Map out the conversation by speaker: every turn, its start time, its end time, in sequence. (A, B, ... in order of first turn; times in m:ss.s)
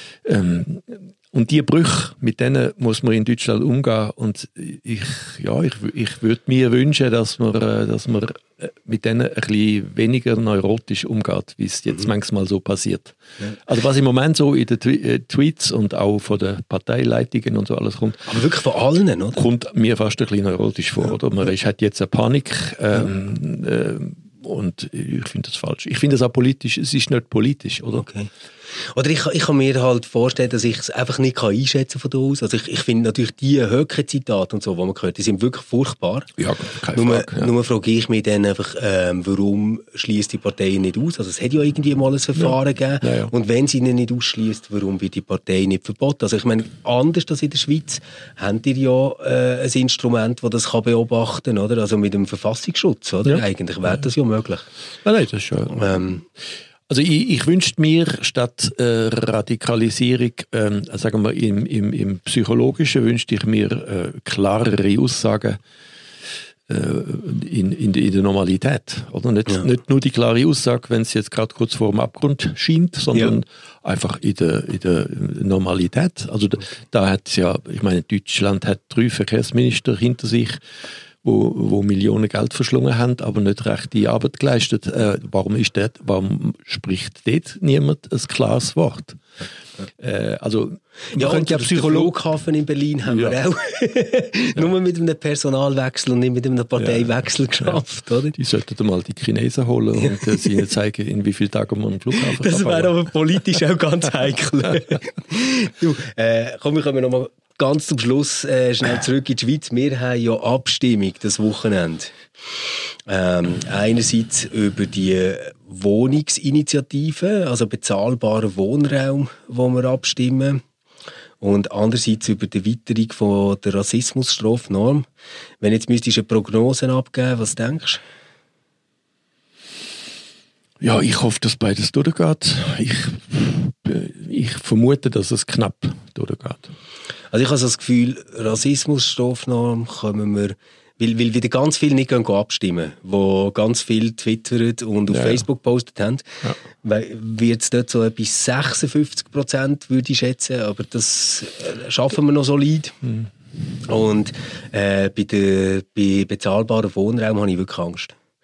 0:00.2-0:18.3 A
0:18.3-0:19.4 B
0:19.3-0:28.0 A
0:28.0-0:36.3 B
0:36.4-0:37.5 A
0:36.9-0:54.7 B
0:42.4-0:43.3 A
0:55.0-0:56.2 A
0:55.8-0:56.2 B
0:56.9-1:05.6 A
1:06.7-1:20.6 A
1:21.2-1:29.2 A
1:30.0-1:32.1 A
1:31.1-1:38.4 B
1:33.1-1:33.4 A
1:36.8-1:37.1 A
1:38.3-1:42.9 A
1:42.2-1:52.1 B
1:53.1-2:00.6 B
2:01.4-2:05.1 B
2:05.6-2:08.0 B
2:10.8-2:16.7 A
2:17.3-2:33.0 B
2:25.1-2:25.4 A
2:33.8-2:38.1 B